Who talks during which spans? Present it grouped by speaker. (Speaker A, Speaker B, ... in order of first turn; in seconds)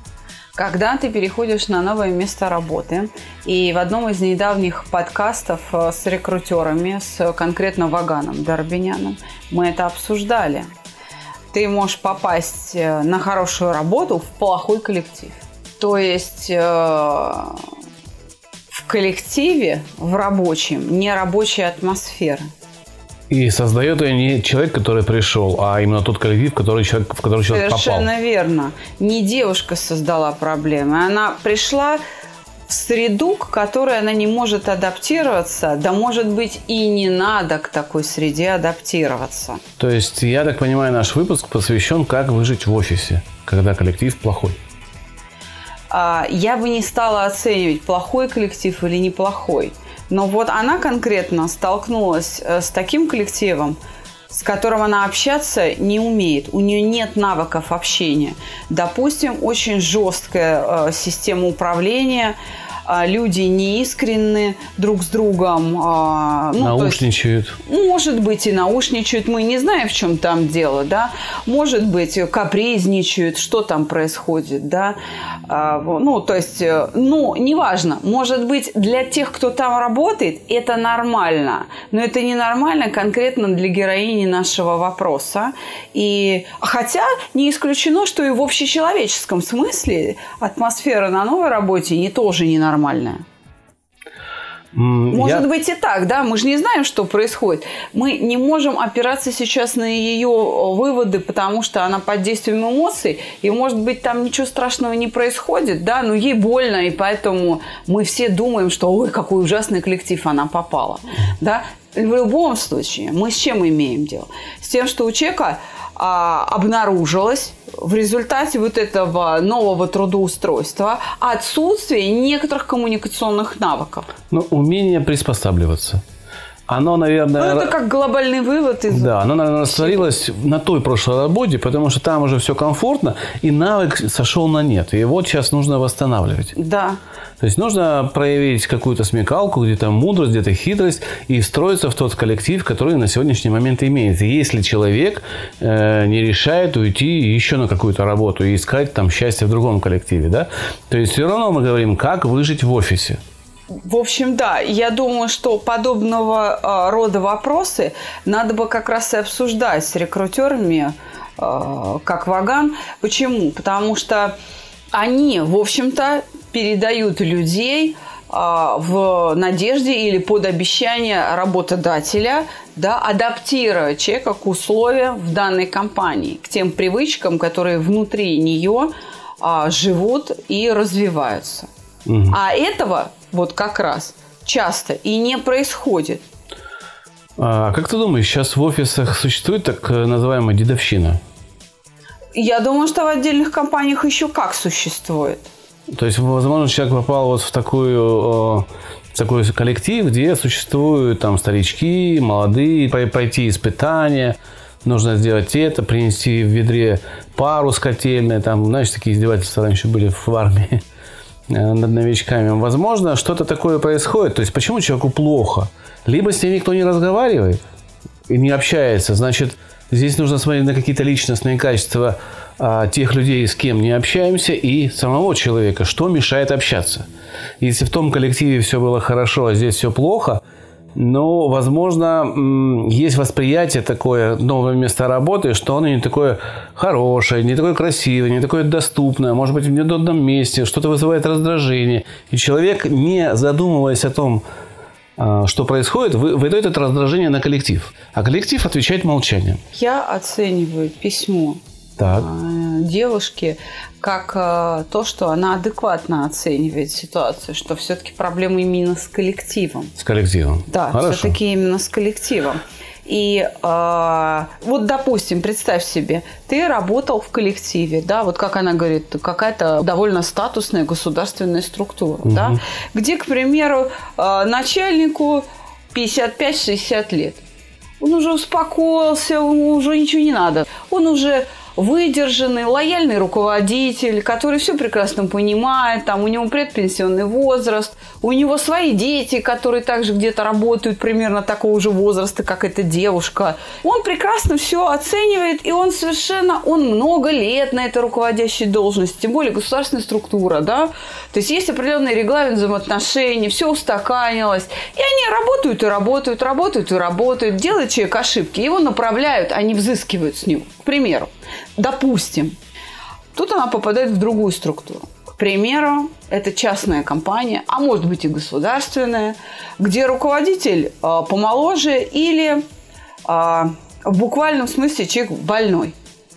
Speaker A: 0.6-10.7, 11.5-17.6, 18.7-22.5, 27.5-32.0, 32.7-39.6, 45.9-53.8, 54.3-62.4, 62.9-67.0, 67.7-93.2, 95.1-124.1, 127.4-130.1, 136.6-137.0, 153.8-164.4, 164.9-181.7, 182.3-186.2, 192.3-195.5, 249.7-259.9, 260.7-277.4, 278.0-312.6, 313.4-322.6, 323.3-325.9
Speaker B: 23.3-28.1, 39.8-44.6, 66.6-67.6, 94.7-95.5, 124.3-126.0, 126.7-127.7, 128.9-136.5, 137.4-153.2, 182.1-182.4, 187.4-191.2, 195.9-210.8, 211.5-217.6, 218.3-227.1, 227.6-230.4, 230.9-244.4, 245.2-249.6, 252.0-252.3, 260.0-261.4, 272.3-272.6